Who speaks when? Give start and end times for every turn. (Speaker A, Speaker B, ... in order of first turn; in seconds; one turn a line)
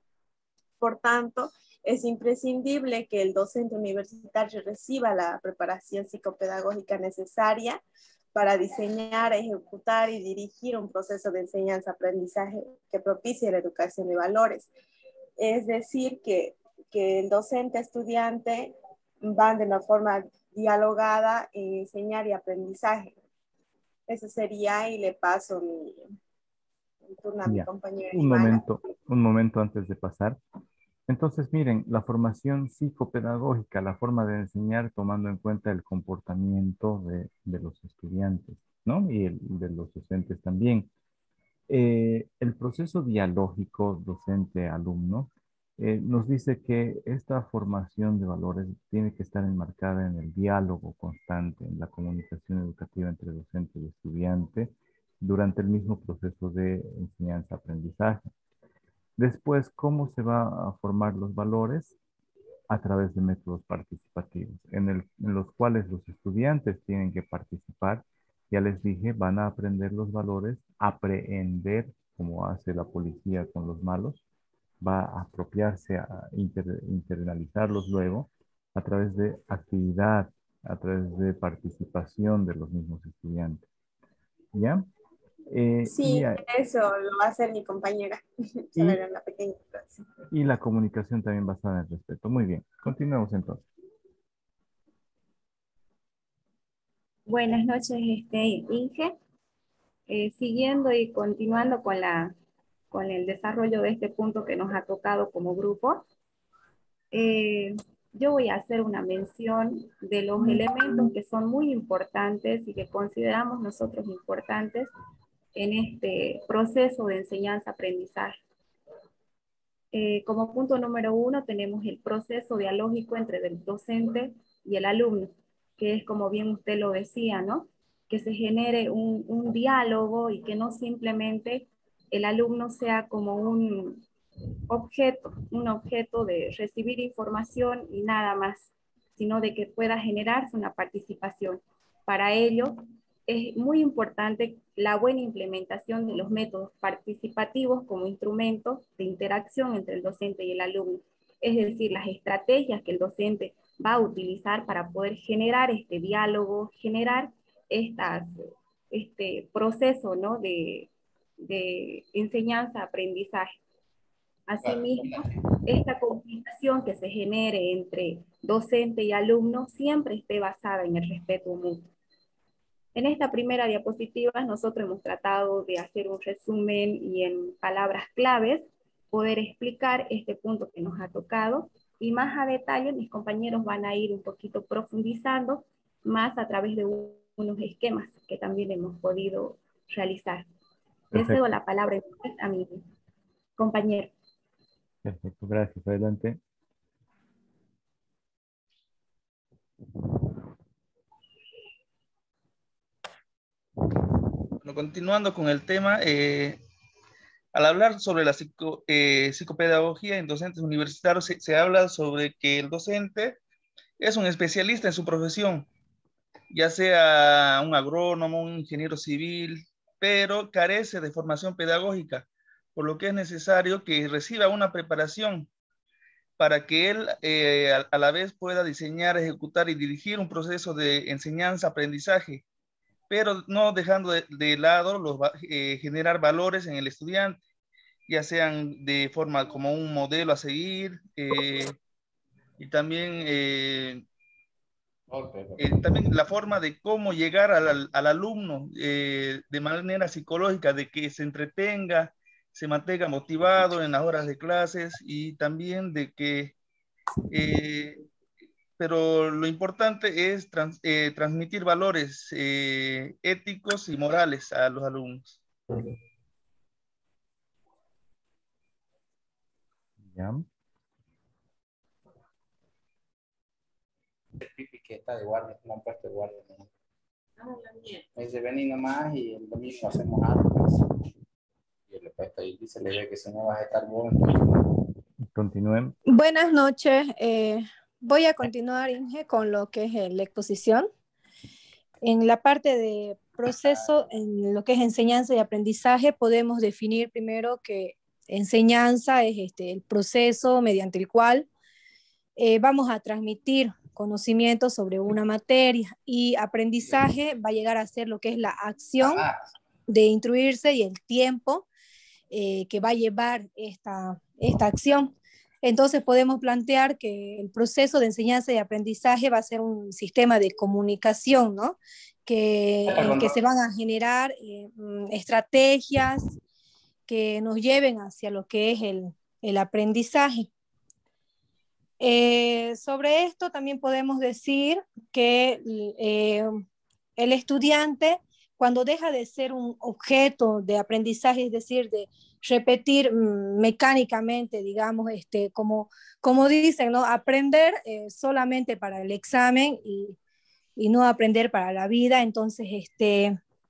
Speaker A: 0.8-7.8
Speaker A: 8.3-14.7
Speaker A: 15.4-23.2
Speaker A: 24.1-26.1
Speaker A: 27.1-28.6
Speaker B: 27.5-30.4
Speaker B: 31.1-40.9
Speaker B: 41.7-58.3
Speaker B: 59.2-62.0
Speaker B: 62.7-74.2
Speaker B: 74.8-83.7
Speaker B: 84.5-84.9
Speaker B: 85.5-86.4
Speaker A: 85.9-90.1
Speaker B: 88.8-89.0
Speaker B: 90.3-93.6
Speaker C: 97.3-99.2
Speaker C: 100.1-102.3
Speaker C: 102.9-106.1
Speaker C: 107.1-114.9
Speaker C: 115.5-118.4
Speaker C: 119.9-134.0
Speaker C: 134.7-160.9
Speaker C: 161.4-163.6
Speaker C: 164.5-171.9
Speaker C: 172.9-190.5
Speaker C: 191.1-192.8
Speaker B: 191.1-191.4
Speaker C: 193.6-194.1
Speaker B: 195.0-196.4
Speaker D: 204.6-206.6
Speaker D: 207.5-213.4
Speaker D: 214.0-215.7
Speaker D: 216.5-225.5
Speaker D: 226.4-232.4
Speaker D: 233.1-237.4
Speaker D: 238.1-241.8
Speaker D: 242.6-244.0
Speaker D: 245.6-256.5
Speaker D: 257.3-258.0
Speaker D: 258.8-265.4
Speaker B: 270.0-270.5
Speaker E: 281.9-284.0
Speaker B: 285.2-285.9
Speaker F: 286.1-290.9
Speaker F: 292.0-301.5
Speaker F: 302.4-309.2
Speaker F: 309.9-311.6
Speaker F: 312.3-315.1
Speaker F: 315.6-326.4
Speaker F: 327.1-330.5
Speaker F: 332.0-336.6
Speaker F: 337.2-350.2
Speaker F: 350.8-353.4